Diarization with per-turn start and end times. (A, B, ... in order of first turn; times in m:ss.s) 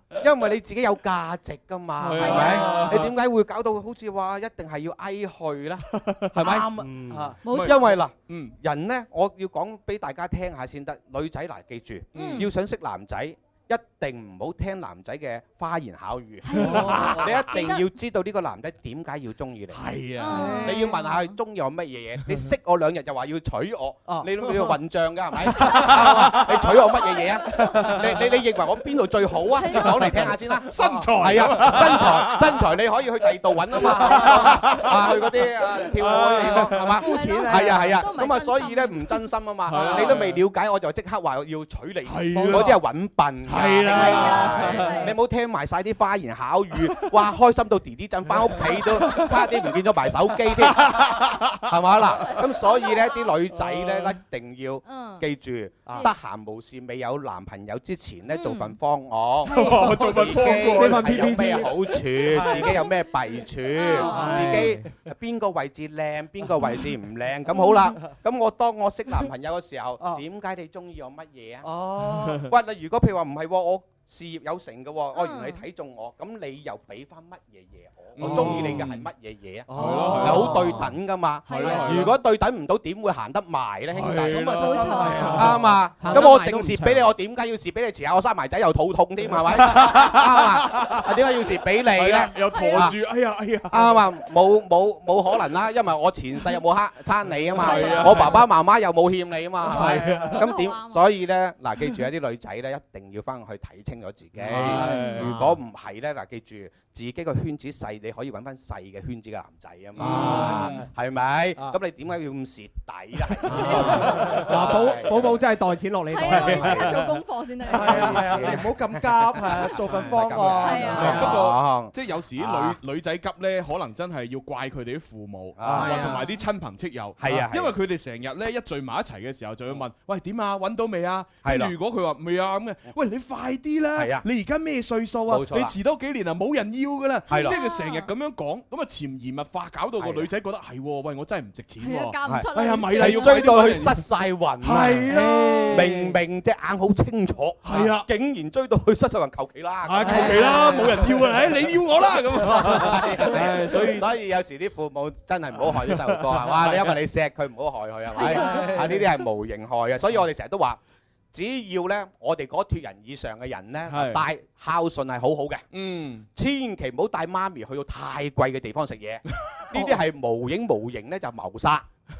0:00.2-0:06.6 A
0:02.0-0:03.1 B
0:02.2-0:02.9 C
0:02.3-0:03.0 D
0:05.9-0:06.3 B
0:06.4-0:07.4 D
0:07.4-0:08.0 C
0:07.4-0:08.5 B
0:07.5-0:19.8 A
0:12.1-0:12.5 B
0:12.1-0:12.5 C
0:16.4-0:17.8 C
0:16.6-0:17.6 B
0:16.6-0:17.2 D
0:19.7-0:20.6 B
0:20.2-0:21.1 C
0:20.3-0:20.9 D
0:20.6-1:11.6 A
0:24.1-0:24.7 D
0:25.7-0:26.0 B
0:25.8-0:26.2 D
0:27.5-0:27.9 C
0:29.6-0:30.3 C
0:30.2-0:32.7 B
0:30.8-0:31.4 D
0:33.8-0:37.0 B
0:36.3-0:38.0 D
0:37.0-0:39.2 C
0:39.7-0:40.4 B
0:39.7-0:40.1 D
0:39.8-0:40.1 C
0:42.0-0:42.8 B
0:42.3-0:42.8 D
0:43.4-0:45.1 B
0:43.8-0:45.2 C
0:50.7-0:51.6 B
0:52.7-0:53.2 C
0:54.8-0:55.3 C
0:58.3-0:58.8 C
0:59.5-1:01.6 B
0:59.8-1:00.3 D
1:00.6-1:01.7 E
1:02.3-1:02.9 D
1:02.6-1:02.9 C
1:03.7-1:04.6 C
1:04.0-1:04.7 D
1:04.4-1:04.8 E
1:07.5-1:08.0 C
1:11.6-1:12.4 D
1:12.4-1:24.6 A
1:15.1-1:15.6 C
1:18.2-1:19.1 B
1:18.2-1:18.8 D
1:19.7-1:20.6 D
1:19.7-1:20.8 B
1:19.9-1:20.8 E
1:21.4-1:22.2 C
1:21.6-1:22.1 B
1:23.9-1:25.6 B
1:24.3-1:26.3 D
1:24.4-1:25.4 C
1:25.0-1:27.0 E
1:25.4-1:33.0 A
1:29.6-1:31.1 B
1:31.9-1:34.0 B
1:32.4-1:32.9 C
1:33.7-1:55.4 A
1:37.5-1:38.4 C
1:37.5-1:38.4 B
1:39.7-1:40.3 D
1:39.7-1:40.3 B
1:40.2-1:41.1 C
1:44.4-1:45.3 B
1:44.6-1:45.5 E
1:50.0-1:50.7 B
1:50.1-1:50.5 E
1:50.1-1:50.6 D
1:53.5-1:56.9 E
1:56.1-1:58.3 C
1:56.2-1:57.0 A
1:57.7-2:01.2 D
1:57.7-2:02.8 A
2:00.6-2:01.4 C
2:00.9-2:24.0 B
2:05.6-2:06.1 A
2:05.6-2:06.0 D
2:05.7-2:06.4 C
2:07.2-2:07.7 A
2:11.4-2:11.7 A
2:14.0-2:14.2 A
2:15.3-2:15.7 A
2:17.3-2:17.6 A
2:17.3-2:18.1 C
2:20.0-2:20.3 A
2:21.8-2:23.8 C
2:22.3-2:25.0 A
2:24.6-2:26.0 B
2:25.1-2:25.8 D
2:25.7-2:30.6 A
2:27.6-2:28.1 B
2:29.8-2:34.1 B
2:30.0-2:31.2 D
2:32.8-2:40.8 A
2:35.7-2:37.0 B
2:38.2-2:38.8 C
2:38.3-2:39.0 D
2:41.3-2:45.6 A
2:43.9-2:44.2 B
2:45.7-2:46.2 B
2:46.3-2:51.9 A